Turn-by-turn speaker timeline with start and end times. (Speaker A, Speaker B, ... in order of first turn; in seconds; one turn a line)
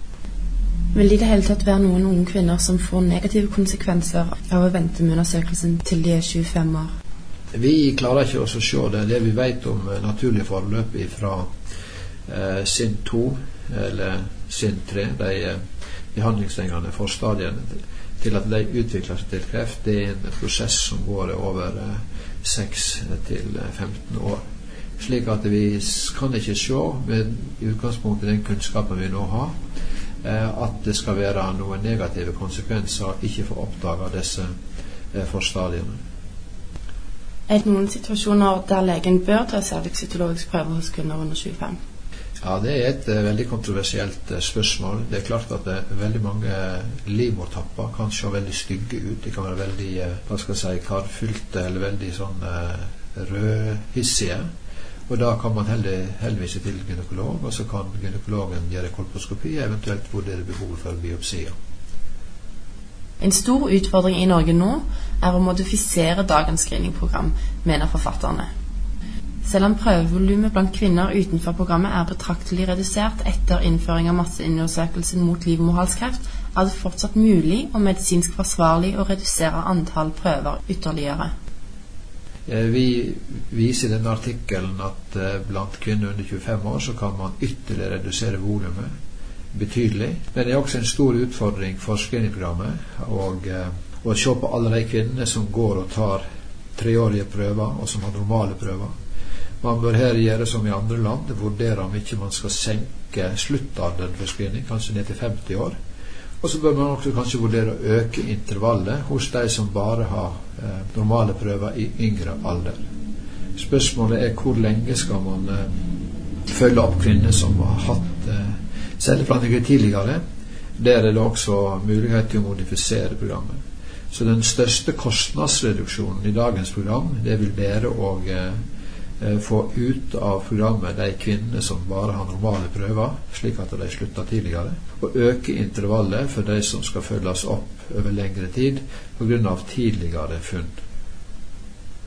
Speaker A: 0.9-6.9
Speaker B: 7.5-11.5
Speaker B: 12.3-15.6
Speaker B: 16.1-24.4
Speaker B: 25.0-29.5
Speaker B: 30.2-34.5
Speaker B: 35.1-36.0
Speaker A: 37.5-41.8
Speaker B: 42.4-54.5
Speaker B: 55.1-61.5
Speaker A: 63.2-68.5
Speaker A: 69.4-81.3
Speaker B: 82.5-88.9
Speaker B: 89.5-96.2
Speaker B: 96.8-98.9
Speaker B: 99.6-105.8
Speaker B: 106.4-112.8
Speaker B: 113.5-115.7
Speaker B: 116.5-120.2
Speaker B: 120.8-123.6
Speaker B: 124.1-128.6
Speaker B: 129.2-140.7